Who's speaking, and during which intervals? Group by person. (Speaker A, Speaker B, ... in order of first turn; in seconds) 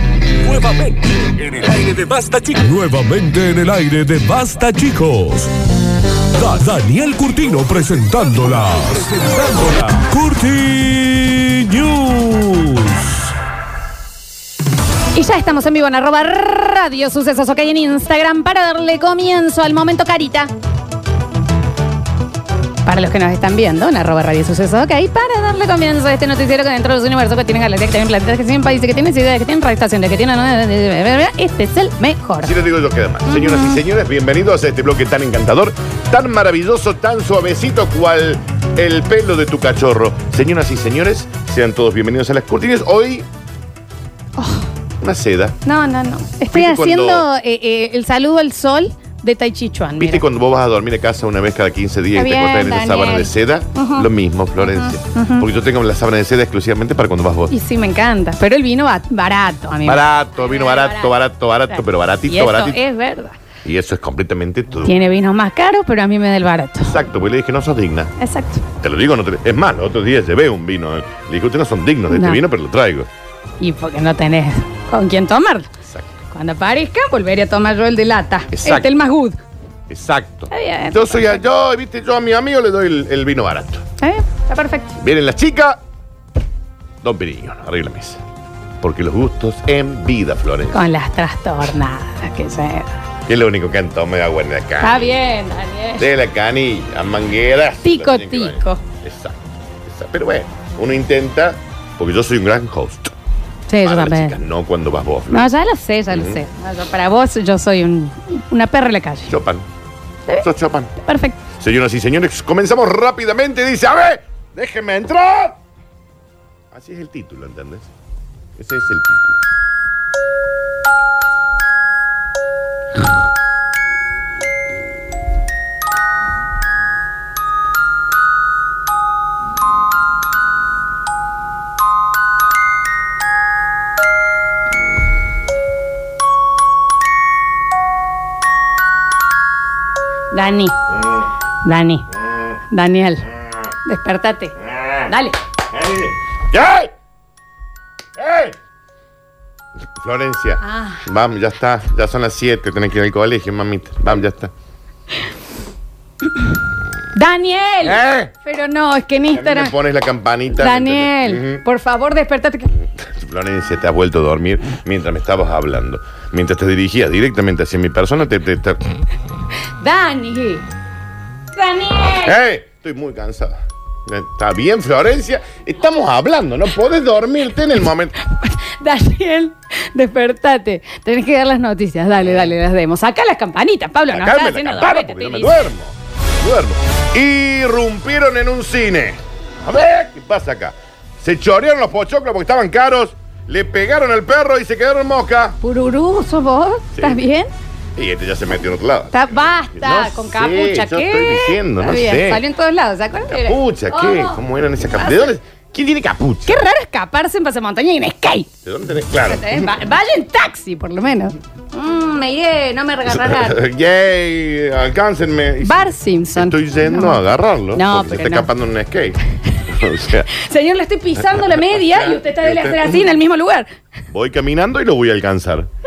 Speaker A: 0.4-5.5, 6.3-13.3
Speaker B: 15.1-20.5, 22.9-32.5, 33.3-33.8, 44.4-44.7, 45.6-50.2, 52.1-54.1, 54.6-55.5, 57.5-61.1, 61.7-63.4, 64.8-67.0, 68.2-68.7, 72.1-72.4, 73.6-75.7, 76.3-79.4, 80.5-81.4, 84.0-85.0, 90.7-92.9, 94.8-96.1, 97.8-98.8, 103.7-104.4, 105.3-109.3, 110.3-111.4, 140.3-140.8, 141.6-142.1, 142.7-143.3, 143.8-145.4, 150.6-151.0, 157.1-159.8, 160.6-162.8, 169.8-170.7, 171.5-172.4, 178.2-185.7, 195.6-197.5, 199.1-204.4, 205.0-205.3, 206.5-208.5, 209.3-213.6, 215.6-218.5, 220.3-223.7
Speaker C: 32.4-43.3, 45.0-45.6, 46.5-47.3, 50.0-57.5, 59.9-62.8, 63.6-65.0, 66.8-68.1, 68.8-73.1, 75.9-76.1, 78.5-78.9, 79.9-83.8, 85.0-85.8, 87.0-88.2, 88.8-90.8, 93.3-95.2, 96.0-103.2, 103.8-105.5, 106.1-106.4, 109.3-109.7, 110.4-110.9, 111.5-115.6, 116.7-117.9, 118.6-119.4, 144.7-145.1, 145.7-146.9, 148.2-148.6, 149.9-154.5, 157.8-158.3, 159.3-161.6, 163.0-168.8, 172.1-178.1, 184.1-195.6, 196.9-197.2, 198.0-202.4, 203.3-206.6, 208.6-209.7, 213.1-220.3, 221.3-223.1, 224.1-225.7